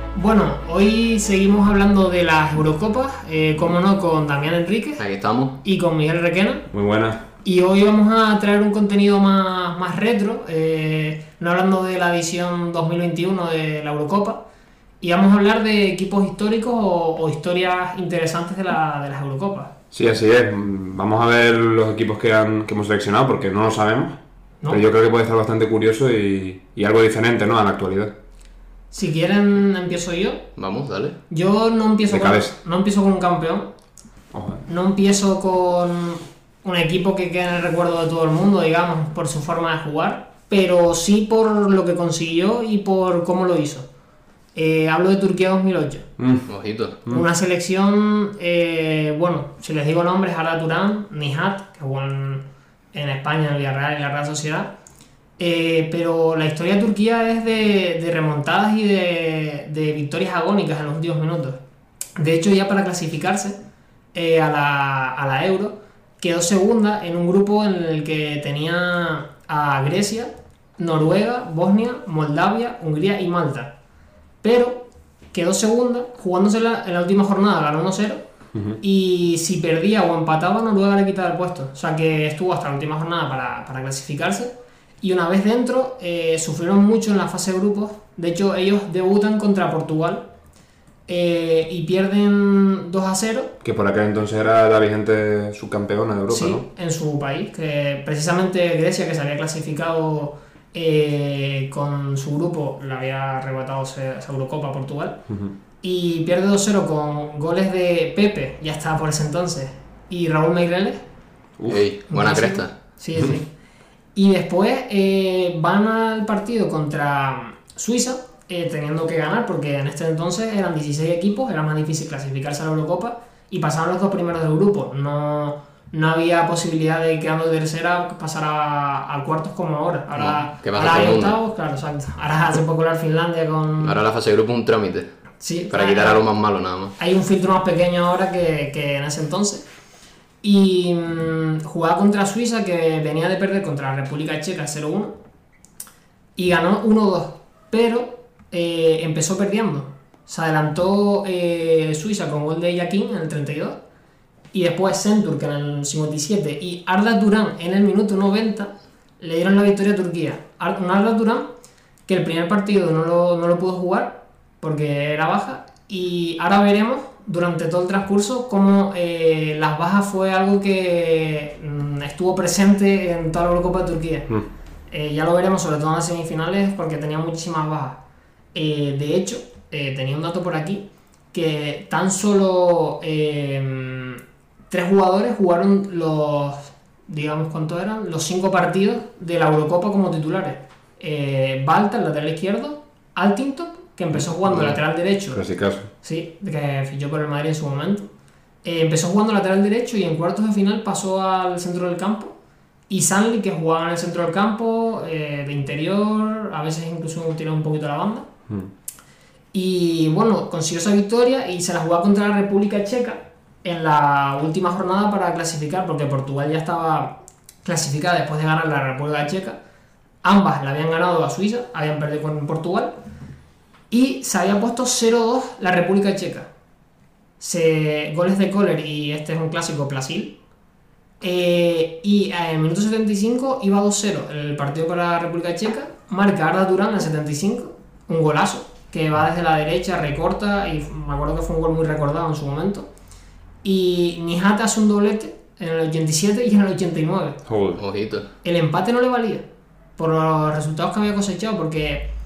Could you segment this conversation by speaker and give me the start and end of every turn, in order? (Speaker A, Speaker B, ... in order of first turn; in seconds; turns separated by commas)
Speaker A: 0.1-5.0, Speaker B: 5.0-5.6, Speaker A: 5.6-6.7, Speaker C: 6.7-7.2, Speaker A: 7.4-14.4, Speaker A: 15.0-19.7, Speaker C: 19.9-28.1, Speaker A: 28.9-30.4, Speaker B: 30.6-31.2, Speaker A: 31.3-33.7, Speaker C: 32.1-32.5, Speaker C: 34.3-34.6, Speaker A: 34.7-43.9, Speaker A: 44.5-46.0, Speaker C: 46.2-46.5, Speaker B: 46.5-47.0, Speaker A: 47.1-54.7, Speaker A: 55.4-61.6, Speaker A: 62.2-63.6, Speaker A: 64.1-73.7, Speaker A: 74.4-78.2, Speaker A: 78.8-90.2, Speaker A: 91.1-93.5, Speaker C: 93.6-96.6, Speaker A: 96.3-105.2, Speaker A: 105.8-111.0, Speaker B: 111.7-112.7, Speaker A: 112.1-113.5, Speaker A: 114.1-134.0, Speaker B: 130.1-131.3, Speaker B: 133.8-135.1, Speaker A: 135.4-136.2, Speaker B: 135.7-136.9, Speaker A: 137.0-139.6, Speaker A: 140.4-145.1, Speaker A: 146.3-153.8, Speaker A: 154.5-161.5, Speaker A: 162.1-174.3, Speaker A: 174.9-178.0, Speaker A: 178.5-195.4, Speaker C: 195.3-195.9, Speaker A: 196.0-198.1, Speaker A: 198.6-202.3, Speaker A: 202.9-208.3, Speaker A: 209.5-219.6, Speaker A: 220.2-222.9, Speaker A: 223.9-226.5, Speaker A: 227.4-230.4, Speaker A: 231.2-242.9, Speaker A: 243.6-247.4, Speaker C: 247.4-247.8, Speaker B: 247.8-248.3, Speaker A: 248.4-249.4, Speaker A: 250.0-252.1